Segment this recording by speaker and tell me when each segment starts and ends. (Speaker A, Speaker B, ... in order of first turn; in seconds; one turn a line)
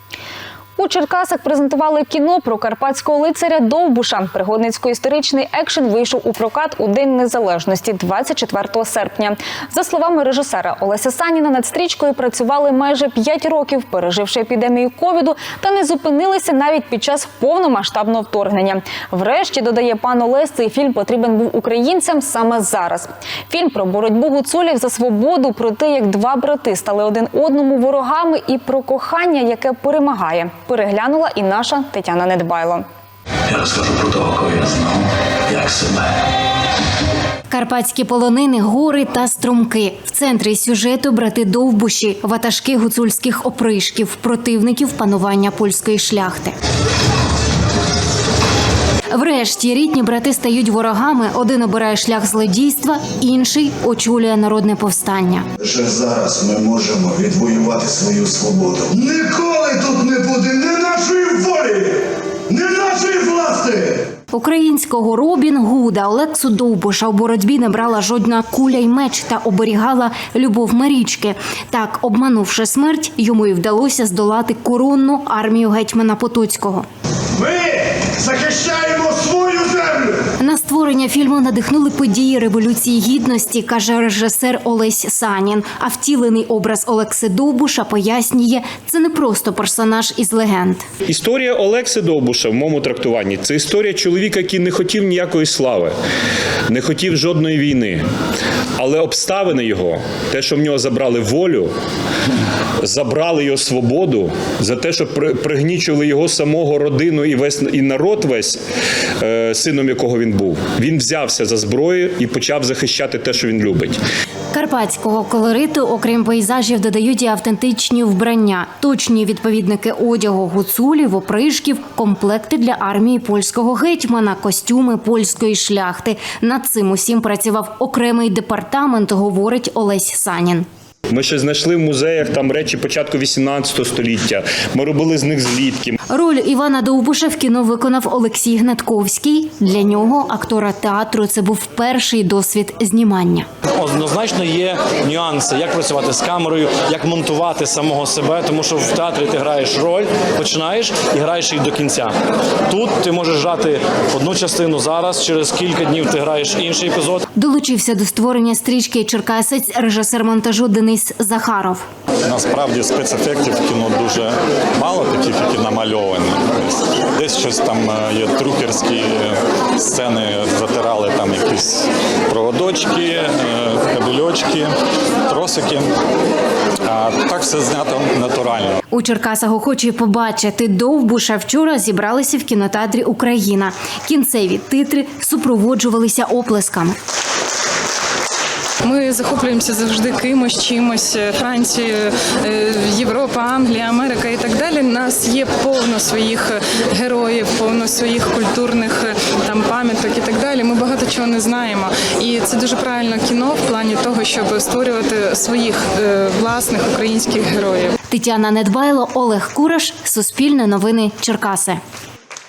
Speaker A: 0.8-32.9
Speaker B: 33.5-36.0
Speaker C: 37.5-46.5
Speaker C: 49.1-55.4
Speaker D: 55.8-61.8
Speaker D: 62.7-63.7
Speaker C: 64.3-76.9
Speaker D: 78.3-80.1
Speaker C: 80.4-90.8
Speaker E: 91.0-96.0
Speaker E: 96.7-98.0
Speaker E: 98.8-101.7
Speaker E: 102.8-108.6
Speaker E: 109.2-114.0
Speaker C: 114.5-130.7
Speaker E: 131.1-136.0
Speaker C: 136.1-143.5
Speaker B: 143.8-152.1
Speaker B: 152.7-157.2
Speaker C: 157.3-161.8
Speaker F: 162.2-174.7
Speaker F: 175.3-175.9
Speaker F: 176.8-178.8
Speaker C: 178.9-186.9
Speaker G: 188.8-207.9
Speaker C: 208.1-211.8